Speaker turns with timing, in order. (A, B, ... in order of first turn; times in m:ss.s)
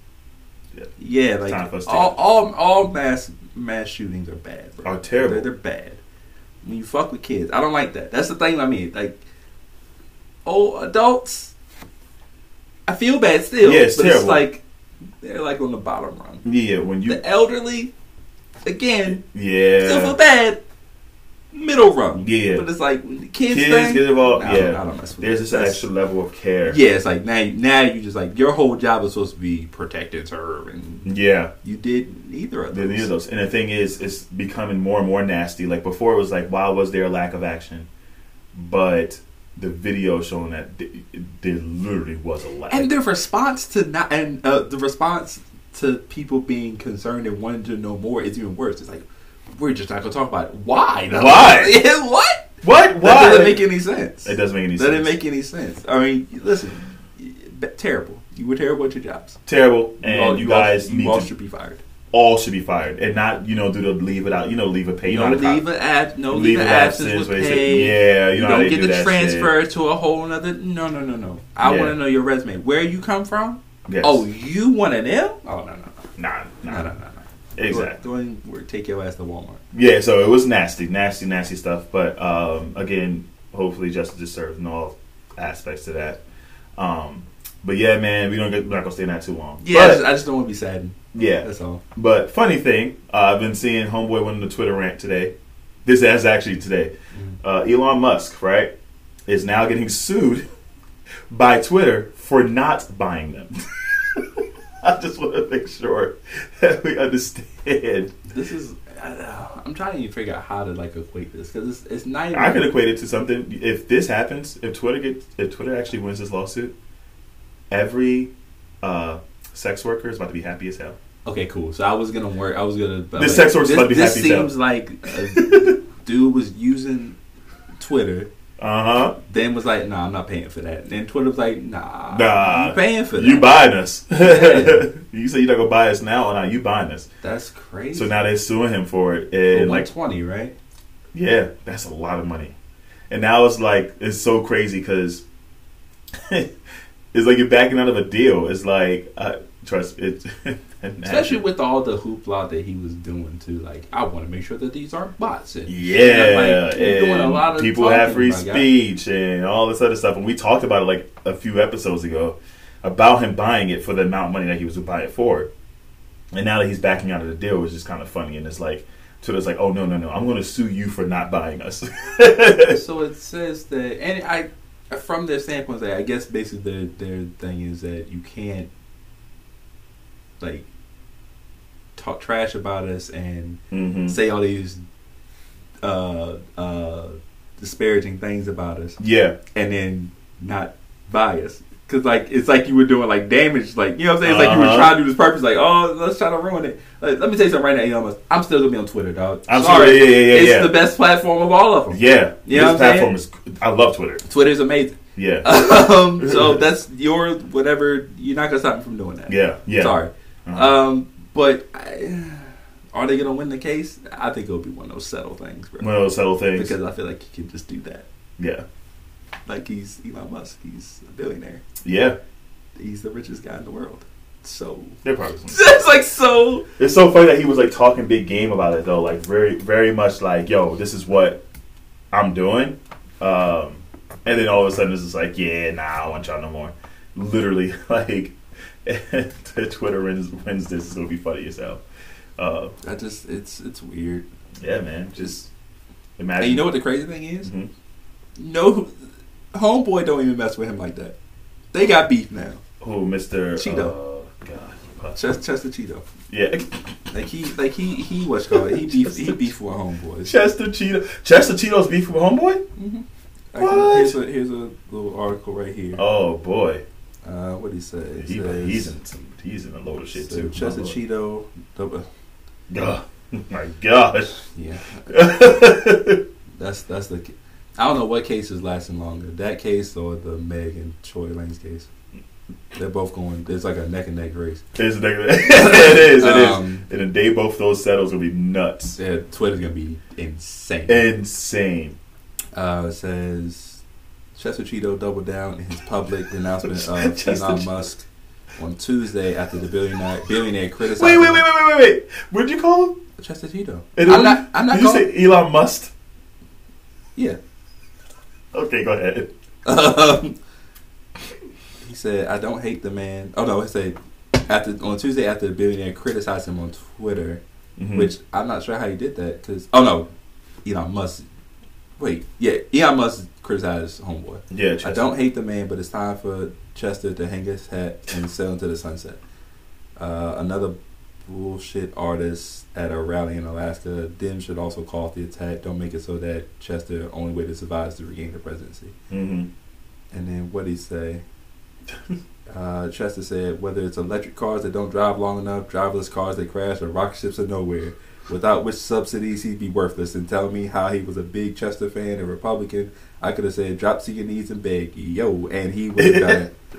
0:01.0-0:06.0 A
0:01.4-0:02.2 B
0:04.8-0:05.5 B
0:06.6-0:09.2 A
0:10.4-0:11.5 A
0:12.9-0:14.6 A
0:13.6-0:14.4 B
0:15.2-0:16.5 A
0:16.4-0:17.2 B
0:17.1-0:17.9 A
0:18.6-0:19.2 A
0:19.1-0:20.2 B
0:19.8-0:20.6 A
0:21.5-0:25.8 A
0:22.2-0:22.6 B
0:23.5-0:26.8 B
0:26.6-0:33.1 A
0:31.0-0:31.5 B
0:32.7-0:37.9 B
0:38.5-0:42.9 B
0:42.7-0:59.4 A
0:51.1-0:51.8 B
0:52.6-0:53.7 B
0:54.2-0:55.2 B
0:59.5-1:01.3 B
1:00.0-1:01.8 A
1:02.1-1:05.6 B
1:05.1-1:16.0 A
1:06.3-1:09.5 B
1:11.6-1:12.0 B
1:13.9-1:14.2 B
1:16.2-1:16.9 B
1:16.6-1:19.6 A
1:17.6-1:18.0 B
1:19.7-1:26.2 B
1:26.8-1:30.0 B
1:29.6-1:31.8 A
1:31.1-1:35.3 B
1:35.8-1:38.7 B
1:39.3-1:40.5 B
1:41.3-1:48.1 B
1:48.3-1:52.7 A
1:52.3-1:56.7 B
1:57.7-1:58.3 B
1:58.8-2:01.0 B
2:01.2-2:07.2 A
2:03.2-2:04.5 B
2:05.4-2:05.8 B
2:07.8-2:08.3 A
2:08.6-2:09.2 B
2:09.2-2:13.5 A
2:12.1-2:17.1 B
2:14.2-2:14.9 A
2:17.2-2:18.2 A
2:17.9-2:19.9 B
2:19.5-2:20.5 A
2:21.1-2:22.5 B
2:23.1-2:25.2 B
2:27.1-2:31.4 B
2:31.0-2:38.7 A
2:35.7-2:45.5 B
2:46.3-2:52.8 B
2:52.7-2:58.7 A
3:00.4-3:00.7 A
3:02.0-3:04.8 A
3:03.7-3:04.2 B
3:05.8-3:09.0 A
3:09.0-3:09.4 B
3:09.5-3:23.1 A
3:14.2-3:15.0 B
3:19.5-3:20.8 B
3:21.9-3:24.2 B
3:24.3-3:35.9 A
3:25.2-3:26.6 B
3:29.3-3:30.8 B
3:35.8-3:36.7 B
3:36.6-3:38.1 A
3:38.4-3:38.6 B
3:39.5-3:41.6 A
3:41.8-3:42.2 B
3:42.8-3:46.6 A
3:45.0-3:45.8 B
3:46.8-3:51.4 B
3:52.1-4:01.8 B
4:02.4-4:02.7 B
4:02.8-4:04.2 A
4:04.6-4:05.5 B
4:06.2-4:06.8 B
4:06.4-4:07.5 A
4:07.4-4:07.7 B
4:08.4-4:08.9 A
4:09.5-4:11.1 A
4:11.7-4:12.6 A
4:12.8-4:15.2 B
4:13.6-4:13.9 A
4:15.2-4:16.0 A
4:16.3-4:16.8 B
4:17.1-4:20.3 A
4:18.5-4:19.5 B
4:20.2-4:22.6 B
4:22.8-4:26.0 A
4:23.6-4:24.2 B
4:26.0-4:26.8 B
4:27.2-4:28.9 A
4:28.2-4:31.0 B
4:30.2-4:32.1 A
4:32.7-4:34.4 B
4:34.5-4:35.3 A
4:35.1-4:36.2 B
4:36.6-4:41.9 A
4:42.7-4:44.6 A
4:44.8-4:49.0 B
4:45.5-4:46.9 A
4:49.0-4:51.1 A
4:50.9-4:52.0 B
4:52.6-4:53.8 A
4:54.4-4:58.0 A
4:56.6-4:57.7 B
4:58.6-5:01.4 A
5:00.9-5:03.0 B
5:03.2-5:05.1 A
5:03.9-5:05.9 B
5:08.5-5:09.3 B
5:09.6-5:10.4 A
5:11.8-5:17.4 A
5:17.8-5:18.1 B
5:17.9-5:20.1 A
5:20.6-5:21.3 A
5:22.0-5:29.2 A
5:24.5-5:25.1 B
5:30.0-5:30.8 A
5:31.3-5:38.9 A
5:39.1-5:39.5 B
5:40.1-5:41.2 A
5:42.5-5:56.5 A
5:56.0-5:56.4 B